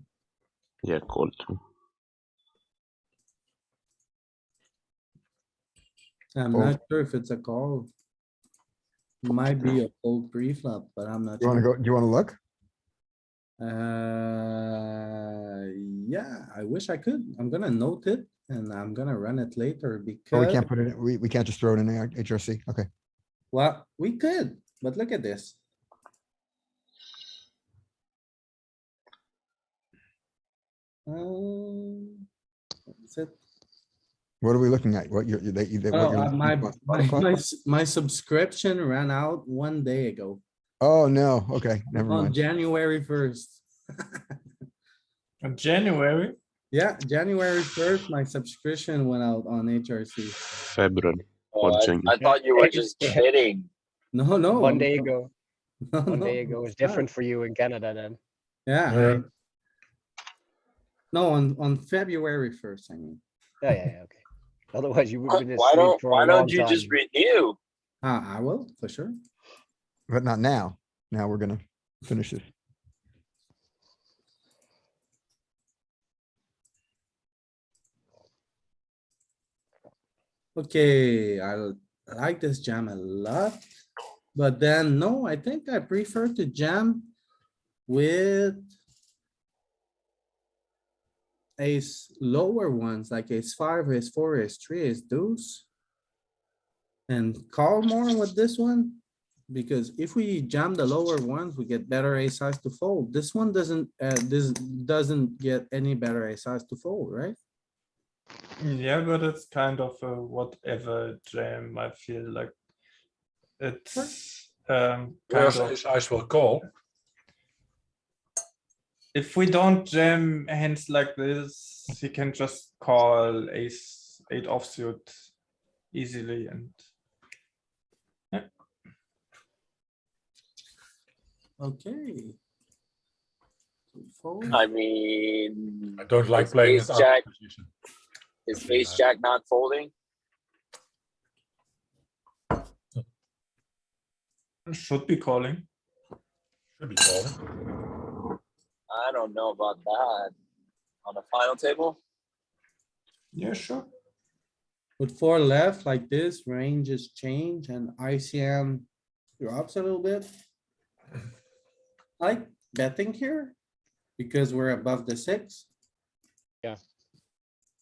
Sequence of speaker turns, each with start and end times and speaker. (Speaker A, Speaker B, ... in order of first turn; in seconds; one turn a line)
Speaker A: 0.8-1.6
Speaker B: 6.3-7.9
Speaker C: 6.5-6.8
Speaker B: 9.2-11.7
Speaker C: 11.4-12.4
Speaker B: 13.6-20.6
Speaker C: 20.3-22.9
Speaker B: 23.5-25.6
Speaker B: 31.1-32.2
Speaker B: 32.9-33.4
Speaker C: 34.4-37.3
Speaker B: 35.9-40.4
Speaker C: 40.8-42.4
Speaker B: 42.0-44.2
Speaker D: 45.4-46.4
Speaker B: 46.7-50.4
Speaker A: 50.6-52.2
Speaker E: 51.5-53.7
Speaker F: 52.2-53.2
Speaker B: 54.1-55.1
Speaker F: 54.6-55.3
Speaker B: 55.9-57.1
Speaker F: 56.1-58.2
Speaker B: 58.7-59.2
Speaker G: 58.9-59.2
Speaker B: 61.1-63.2
Speaker F: 63.6-64.2
Speaker F: 64.7-67.0
Speaker E: 65.3-67.6
Speaker B: 68.0-69.1
Speaker C: 70.1-72.4
Speaker B: 80.6-83.6
Speaker B: 84.3-87.1
Speaker B: 87.9-88.6
Speaker B: 91.6-95.7
Speaker B: 97.1-107.4
Speaker D: 108.6-112.5
Speaker D: 113.6-115.8
Speaker G: 115.3-116.7
Speaker D: 119.1-125.1
Speaker D: 125.9-126.8
Speaker B: 131.6-132.4
Speaker B: 133.9-134.7
Speaker E: 134.5-137.2
Speaker G: 136.0-137.7
Speaker E: 138.5-139.9
Speaker G: 138.6-139.0
Speaker D: 144.7-145.7
Speaker G: 146.8-147.4
Speaker E: 148.9-150.3
Speaker E: 151.0-152.0
Speaker D: 153.3-153.9
Speaker B: 155.0-158.9
Speaker B: 159.4-160.3
Speaker B: 162.2-163.6
Speaker B: 164.2-165.7